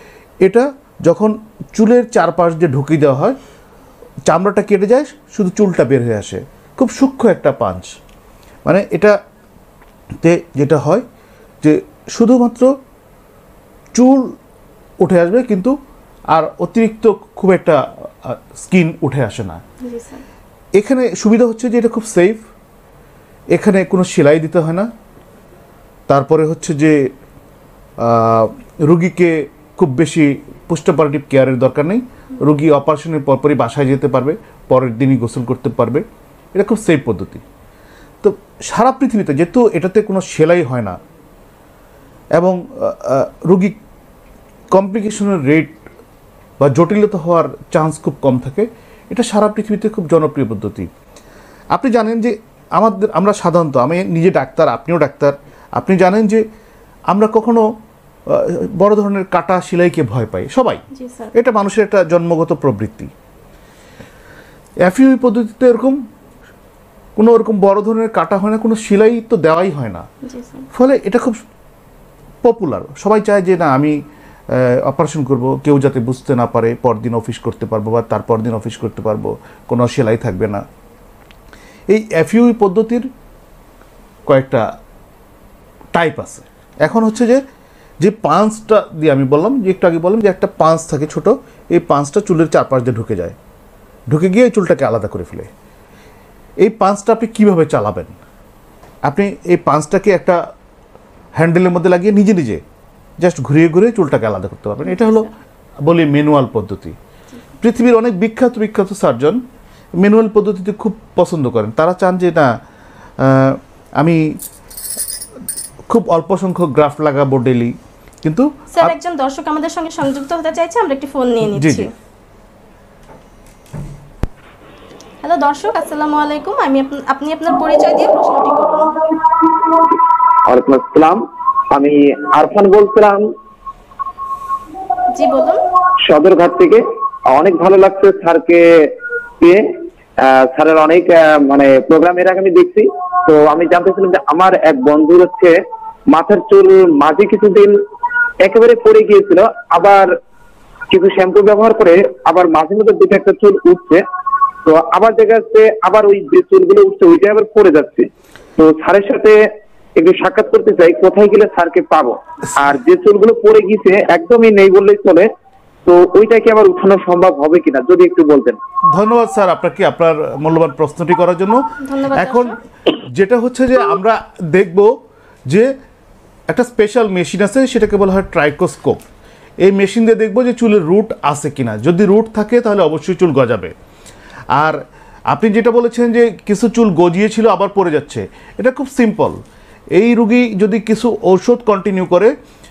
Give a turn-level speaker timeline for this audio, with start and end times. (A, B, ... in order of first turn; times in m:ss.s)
0:00.4-0:03.4 A
0:04.3-0:08.0 A
0:08.6-0:09.2 A
0:10.2-0:11.0 A
0:11.6-0:12.7 A
0:13.9-0:14.3 A
0:15.0-0:15.8 A
0:16.3-0:19.6 A
0:19.8-0:20.2 B
0:20.8-0:22.4 A
0:23.5-0:24.9 A
0:26.1-0:27.1 A
0:28.0-0:37.4 A
0:38.2-0:41.0 A
0:42.4-0:43.8 A
0:44.7-0:45.8 A
0:46.6-0:50.9 A
0:51.7-0:56.4 A
0:57.1-0:57.7 A
0:58.3-1:00.8 A
1:00.9-1:01.3 B
1:01.3-1:03.1 A
1:04.8-1:06.0 A
1:07.2-1:10.0 A
1:10.2-1:10.7 B
1:10.7-1:11.4 A
1:12.4-1:14.0 A
1:14.5-1:20.6 A
1:21.9-1:23.1 A
1:24.3-1:24.7 A
1:25.9-1:27.4 A
1:28.0-1:33.4 A
1:34.1-1:35.5 A
1:36.6-1:38.2 A
1:39.0-1:40.4 A
1:41.4-1:42.6 A
1:43.2-1:45.3 A
1:44.9-1:45.3 B
1:45.8-1:47.0 A
1:47.6-1:49.4 A
1:50.0-1:52.5 A
1:53.2-1:54.4 A
1:55.9-1:58.9 A
1:58.7-2:01.9 B
2:01.5-2:01.9 A
2:05.2-2:08.9 B
2:10.5-2:13.3 C
2:15.1-2:15.6 B
2:16.1-2:27.8 C
2:28.4-2:30.2 C
2:30.9-2:34.0 C
2:34.6-2:39.5 C
2:40.0-2:45.3 C
2:45.8-2:48.6 C
2:48.9-2:52.5 A
2:51.8-2:52.6 B
2:53.1-2:55.0 A
2:56.5-2:59.0 A
2:59.6-3:03.7 A
3:04.6-3:09.4 A
3:10.0-3:12.3 A